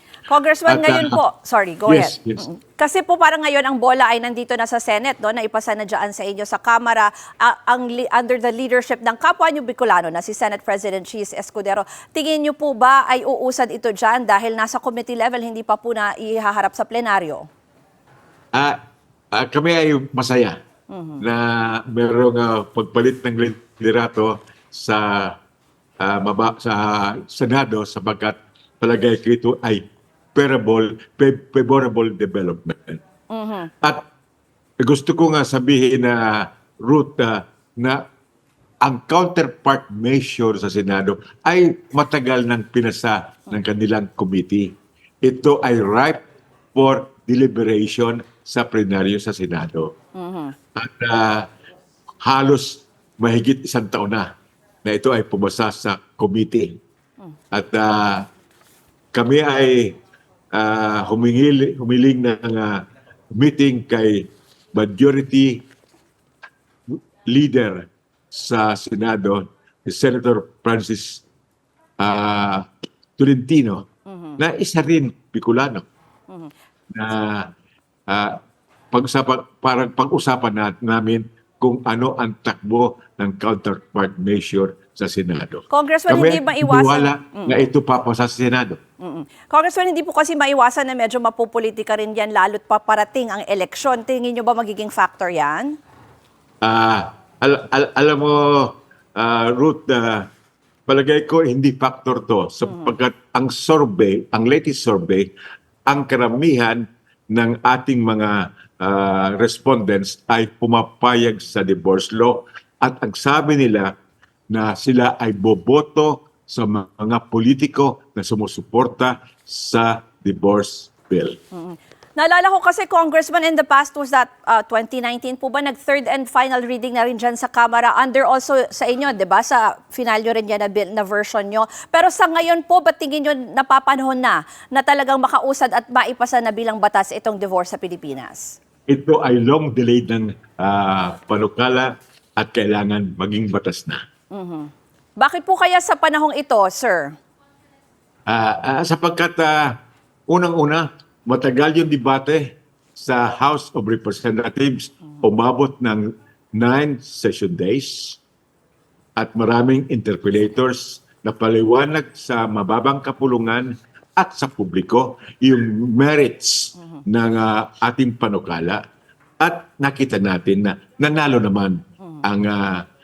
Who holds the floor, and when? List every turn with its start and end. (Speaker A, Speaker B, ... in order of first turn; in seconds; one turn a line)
Speaker A: 0.3-17.5
Speaker B: 0.7-1.2
Speaker B: 1.9-2.4
Speaker B: 19.3-20.6
Speaker A: 20.9-21.2
Speaker B: 21.2-25.4
Speaker B: 26.0-33.0
Speaker A: 33.3-33.7
Speaker B: 34.8-38.0
Speaker B: 38.8-46.2
Speaker B: 46.7-50.0
Speaker A: 50.2-50.5
Speaker B: 50.8-51.5
Speaker B: 52.2-54.3
Speaker B: 54.8-56.8
Speaker B: 57.5-58.3
Speaker B: 59.1-60.0
Speaker B: 60.5-65.7
Speaker B: 66.9-71.2
Speaker B: 72.0-73.9
Speaker A: 74.1-74.4
Speaker B: 74.4-75.9
Speaker B: 76.9-77.5
Speaker B: 78.1-78.4
Speaker B: 78.9-88.8
Speaker A: 85.7-87.6
Speaker A: 89.0-95.8
Speaker B: 96.6-100.3
Speaker B: 100.9-105.3
Speaker A: 102.7-102.9
Speaker B: 105.9-113.9
Speaker B: 114.5-121.4
Speaker A: 121.5-138.6
Speaker B: 138.9-144.0
Speaker A: 144.3-147.2
Speaker B: 148.3-149.7
Speaker B: 150.3-158.2
Speaker B: 159.2-168.8
Speaker B: 169.4-172.9